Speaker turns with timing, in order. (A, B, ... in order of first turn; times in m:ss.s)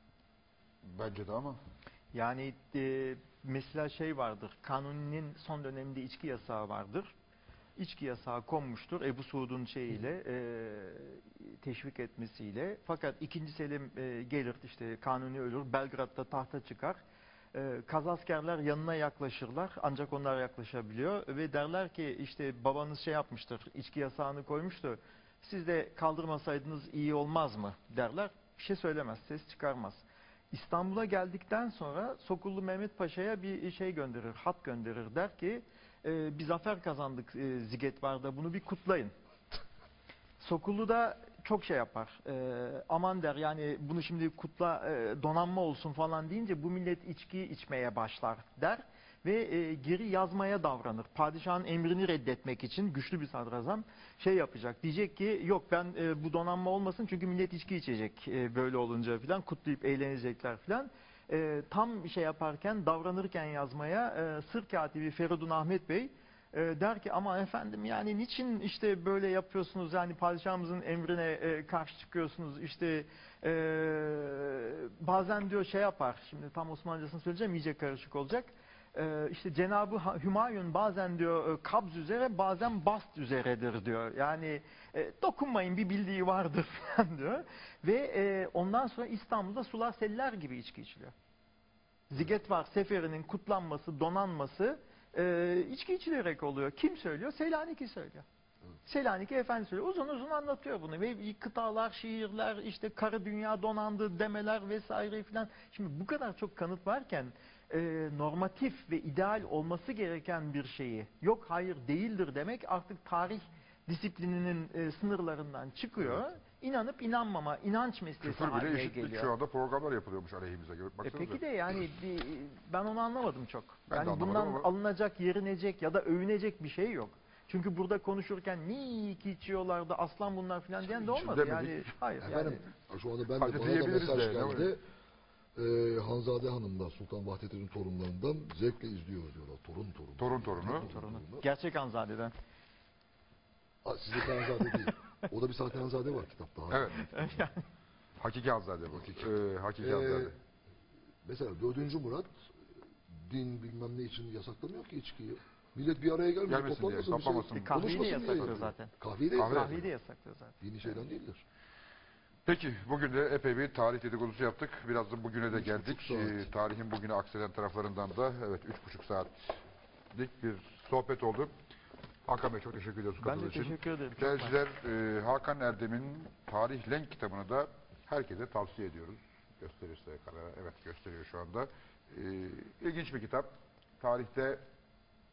0:00.8-0:01.6 A
0:02.1-0:07.1 B
0:07.8-0:17.0 B
0:17.5-0:39.1 B
0:40.4-1:31.1 B
1:32.1-1:38.2 B
1:38.8-1:59.3 B
1:58.2-2:01.4 A
2:01.0-2:12.6 B
2:03.9-2:04.7 A
2:10.9-2:11.8 A
2:12.2-2:14.8 C
2:13.3-2:14.7 A
2:15.6-2:21.5 C
2:20.2-2:20.9 A
2:20.6-2:22.3 B
2:23.8-2:27.4 C
2:26.7-2:27.1 A
2:27.0-2:27.6 B
2:28.2-2:30.3 A
2:29.8-2:30.3 C
2:31.2-2:32.4 C
2:33.1-2:39.8 C
2:36.4-2:37.9 A
2:37.4-2:40.6 B
2:39.4-2:39.8 A
2:40.6-2:41.4 C
2:42.4-2:49.6 A
2:45.5-2:46.5 C
2:50.1-2:51.5 A
2:52.2-3:04.6 A
2:53.2-2:54.6 B